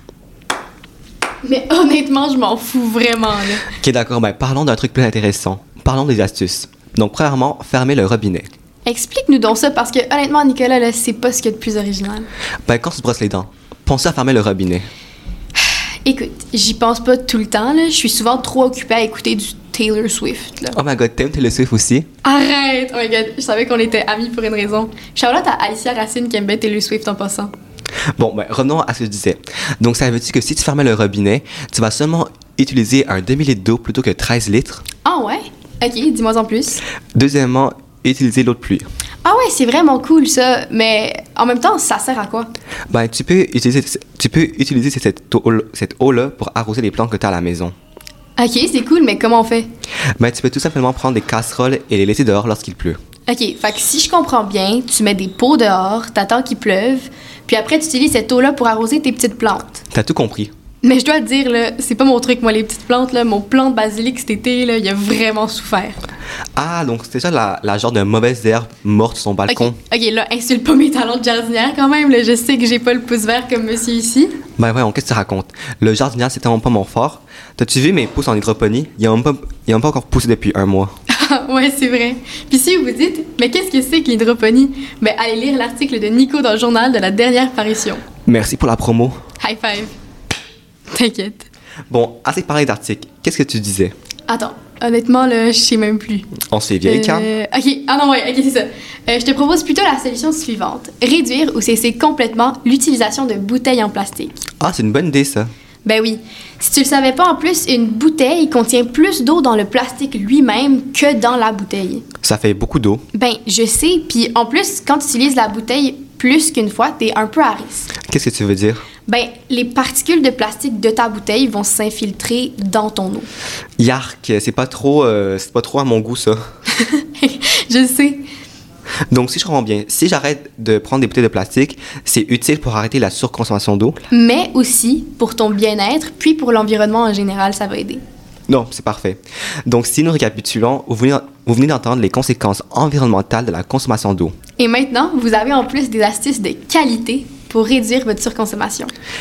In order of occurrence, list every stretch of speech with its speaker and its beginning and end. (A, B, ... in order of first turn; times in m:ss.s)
0:01.4-0:03.7 A
0:03.7-0:08.5 B
0:08.9-0:12.3 A
0:12.7-0:14.9 B
0:16.0-0:20.8 A
0:20.8-0:22.1 B
0:22.2-0:27.5 A
0:28.2-0:34.8 B
0:35.0-0:36.8 A
0:37.1-0:38.9 B
0:39.2-0:42.5 A
0:42.9-0:47.7 B
0:48.4-0:49.7 A
0:50.2-0:53.0 B
0:53.3-0:59.8 A
0:59.9-1:00.5 B
1:00.8-1:06.0 A
1:06.6-1:09.8 B
1:09.5-1:14.4 A
1:14.6-1:20.9 B
1:21.1-1:28.0 A
1:28.3-1:29.2 B
1:29.4-1:29.9 A
1:30.9-1:31.5 A
1:31.9-1:33.9 B
1:34.3-1:44.4 A
1:36.5-1:37.3 B
1:44.6-1:45.5 B
1:45.8-1:52.0 A
1:52.2-1:53.0 B
1:53.1-1:57.9 A
1:58.1-1:58.8 B
1:59.1-2:03.3 A
2:03.8-2:06.4 B
2:06.7-2:08.2 A
2:09.1-2:14.0 B
2:14.1-2:18.0 A
2:18.5-2:24.4 B
2:24.6-2:28.9 A